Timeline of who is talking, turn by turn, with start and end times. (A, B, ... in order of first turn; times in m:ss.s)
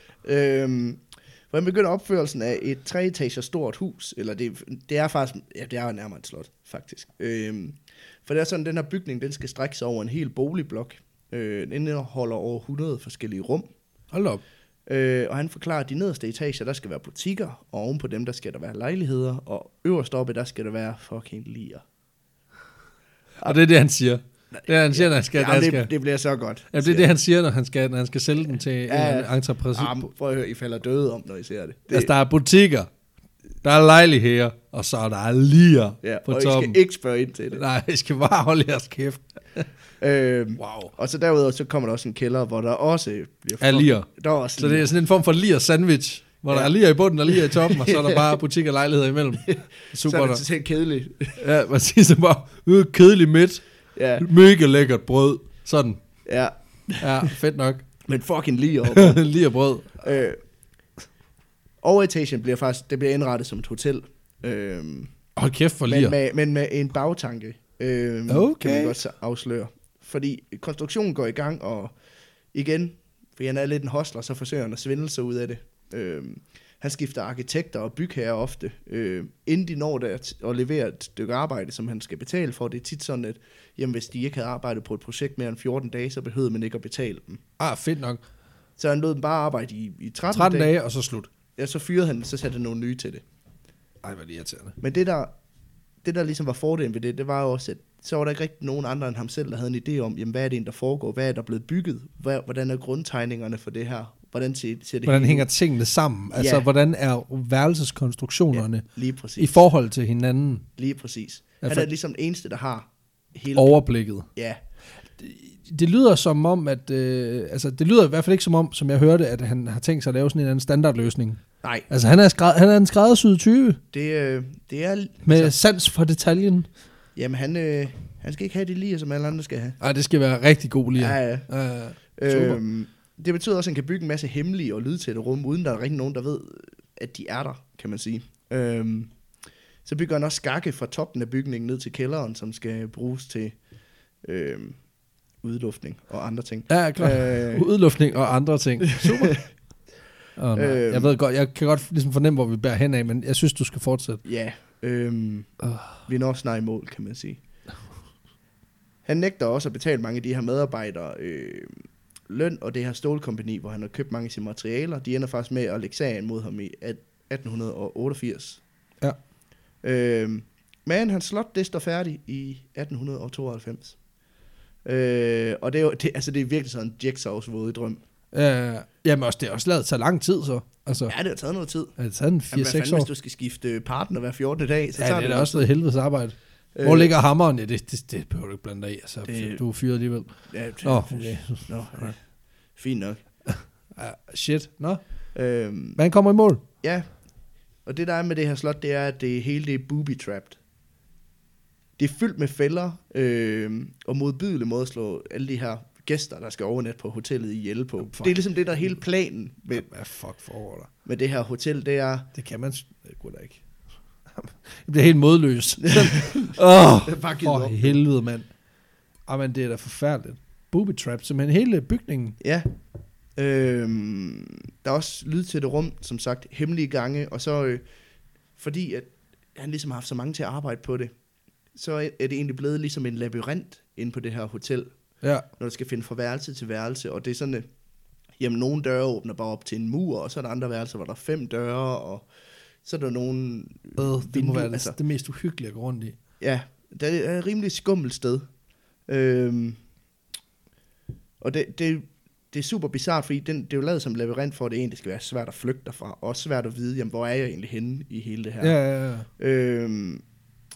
0:00.2-0:13.6 A
0:14.1-0:14.4 B
0:14.9-0:21.8 A
0:23.4-0:25.9 B
0:24.5-0:27.1 A
0:26.7-0:30.1 B
0:28.9-0:32.1 A
0:31.9-0:32.9 B
0:33.6-0:36.8 B
0:36.0-0:37.6 A
0:37.5-0:39.7 B
0:40.0-0:44.9 A
0:40.6-0:40.9 B
0:43.6-0:50.4 B
0:47.3-0:48.4 A
0:49.4-0:51.4 A
0:51.4-0:53.6 B
0:54.0-0:54.2 A
0:54.2-0:56.0 B
0:56.2-0:57.3 A
0:57.0-0:57.8 B
0:58.1-0:59.2 A
0:58.9-1:00.0 B
1:00.0-1:00.4 A
1:01.8-1:05.1 A
1:05.4-1:06.2 B
1:05.8-1:11.9 A
1:08.3-1:09.0 B
1:12.5-1:27.4 A
1:27.6-1:28.2 B
1:28.8-1:30.7 A
1:30.3-1:31.3 B
1:31.6-1:33.2 A
1:34.0-1:34.8 B
1:34.8-1:35.3 A
1:36.0-1:45.4 A
1:45.0-1:48.8 B
1:46.3-1:46.6 A
1:48.5-1:49.6 A
1:49.4-1:50.6 B
1:50.8-1:53.8 A
1:51.6-1:51.9 B
1:53.5-1:54.3 B
1:55.2-2:03.8 B
2:03.9-2:05.5 A
2:05.2-2:06.7 B
2:07.2-2:09.8 A
2:09.8-2:12.6 B
2:11.0-2:11.5 A
2:12.2-2:19.1 A
2:19.8-2:23.6 A
2:24.2-2:24.8 A
2:25.4-2:27.6 A
2:26.7-2:29.4 B
2:28.9-2:29.4 A
2:30.4-2:34.2 B
2:30.6-2:31.1 A
2:34.2-2:35.5 A
2:35.6-2:36.0 B
2:36.0-2:37.4 A
2:39.0-2:48.6 A
2:49.8-2:54.0 A
2:54.8-2:58.0 A
2:58.3-3:01.1 B
3:01.1-3:01.9 A
3:02.0-3:03.1 B
3:02.5-3:05.7 A
3:05.0-3:12.1 B
3:06.7-3:07.1 A
3:09.2-3:09.6 A
3:10.5-3:12.2 A
3:12.8-3:13.2 A
3:13.5-3:15.0 B
3:15.3-3:16.0 A
3:16.0-3:16.6 B
3:16.8-3:17.1 A
3:17.8-3:20.6 A
3:22.0-3:29.8 A
3:28.0-3:28.4 B
3:29.7-3:30.9 B
3:31.0-3:32.3 A
3:32.3-3:33.6 B
3:34.4-3:38.5 B
3:35.8-3:38.0 A
3:39.3-3:42.4 B
3:42.4-3:42.7 A
3:43.4-3:47.8 A
3:48.6-3:51.1 A
3:51.7-3:54.9 A
3:55.6-3:57.7 A
3:58.4-4:02.2 A
4:02.8-4:05.0 A
4:04.0-4:06.2 B
4:06.4-4:08.4 A
4:09.1-4:09.8 A
4:11.4-4:18.8 A
4:18.6-4:19.3 B
4:19.4-4:20.2 A